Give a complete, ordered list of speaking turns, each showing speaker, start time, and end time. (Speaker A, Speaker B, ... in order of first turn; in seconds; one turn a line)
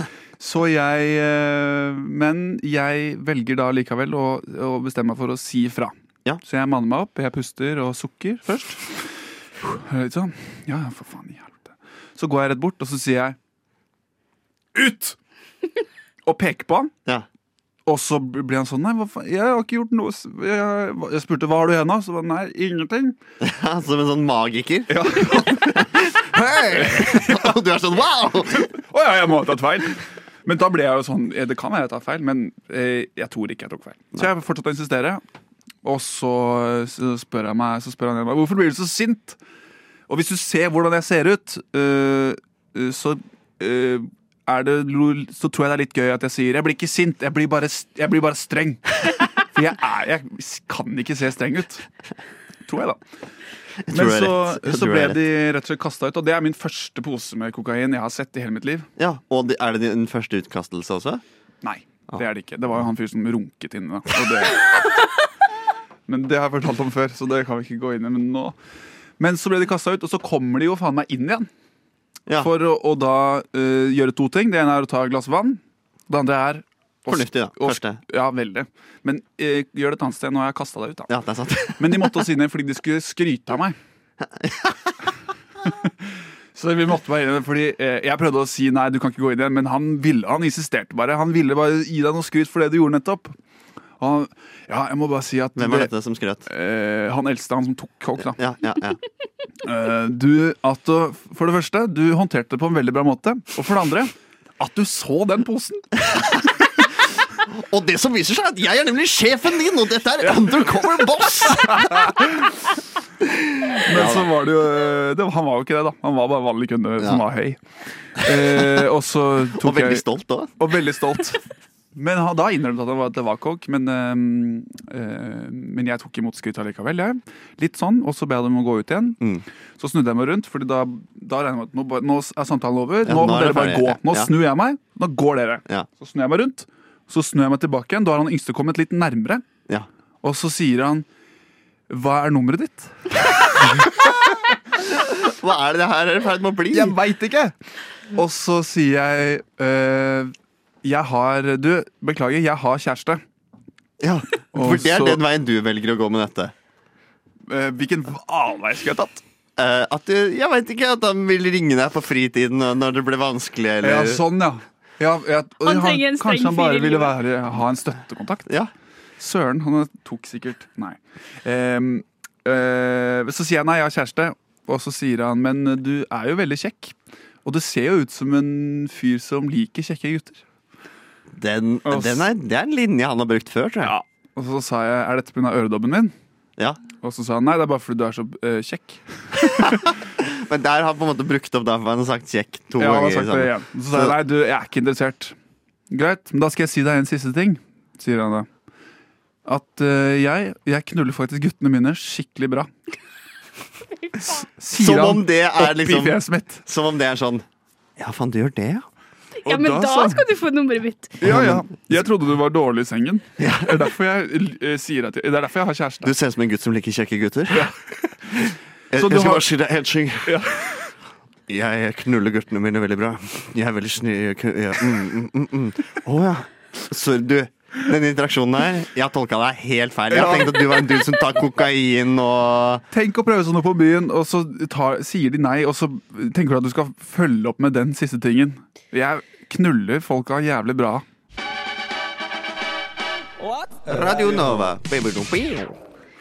Speaker A: 0.4-13.3
Speaker A: 14.7-15.2
Speaker A: 16.2-16.9
Speaker A: 17.9-23.1
Speaker B: 23.4-28.7
Speaker A: 24.9-26.0
Speaker A: 26.7-27.6
Speaker A: 28.7-35.2
Speaker A: 35.8-39.4
Speaker A: 40.1-51.8
Speaker A: 52.6-53.0
Speaker B: 53.8-55.2
Speaker A: 53.9-58.9
Speaker B: 59.0-61.2
Speaker A: 61.6-64.8
Speaker A: 66.1-68.5
Speaker A: 69.2-71.5
Speaker A: 72.4-81.1
Speaker B: 77.1-78.0
Speaker B: 81.1-82.2
Speaker A: 81.8-83.8
Speaker B: 84.2-85.1
Speaker A: 86.5-93.3
Speaker A: 94.0-95.9
Speaker B: 95.5-96.5
Speaker A: 96.5-98.4
Speaker B: 98.2-99.0
Speaker A: 99.6-106.0
Speaker B: 106.1-106.4
Speaker B: 107.4-112.1
Speaker A: 111.6-112.5
Speaker B: 113.2-114.3
Speaker A: 113.8-117.6
Speaker A: 118.1-120.0
Speaker B: 118.2-118.8
Speaker B: 119.5-120.5
Speaker A: 120.6-121.4
Speaker A: 121.9-129.2
Speaker A: 129.8-139.4
Speaker B: 133.0-134.3
Speaker A: 140.2-141.0
Speaker A: 141.9-144.0
Speaker B: 144.9-146.9
Speaker A: 146.7-147.5
Speaker A: 148.1-150.3
Speaker A: 150.8-153.2
Speaker B: 154.0-156.5
Speaker A: 154.5-155.2
Speaker A: 157.5-159.2
Speaker B: 159.6-164.2
Speaker A: 163.8-168.5
Speaker C: 165.6-167.1
Speaker A: 169.2-180.4
Speaker B: 181.3-183.9
Speaker A: 181.8-182.3
Speaker A: 183.8-186.1
Speaker A: 187.0-189.8
Speaker B: 189.6-194.2
Speaker A: 192.8-195.3
Speaker A: 195.9-198.5
Speaker A: 199.4-202.7
Speaker C: 204.1-204.4
Speaker A: 204.6-206.6
Speaker B: 204.7-207.4
Speaker B: 208.0-208.8
Speaker C: 209.4-211.2
Speaker A: 209.4-210.2
Speaker A: 211.2-216.1
Speaker B: 211.2-211.7
Speaker B: 213.4-213.9
Speaker B: 216.0-217.7
Speaker A: 217.5-219.5
Speaker B: 218.4-220.4
Speaker A: 220.2-220.9
Speaker B: 221.5-232.8
Speaker A: 230.1-230.7
Speaker A: 232.9-241.0
Speaker B: 243.8-245.8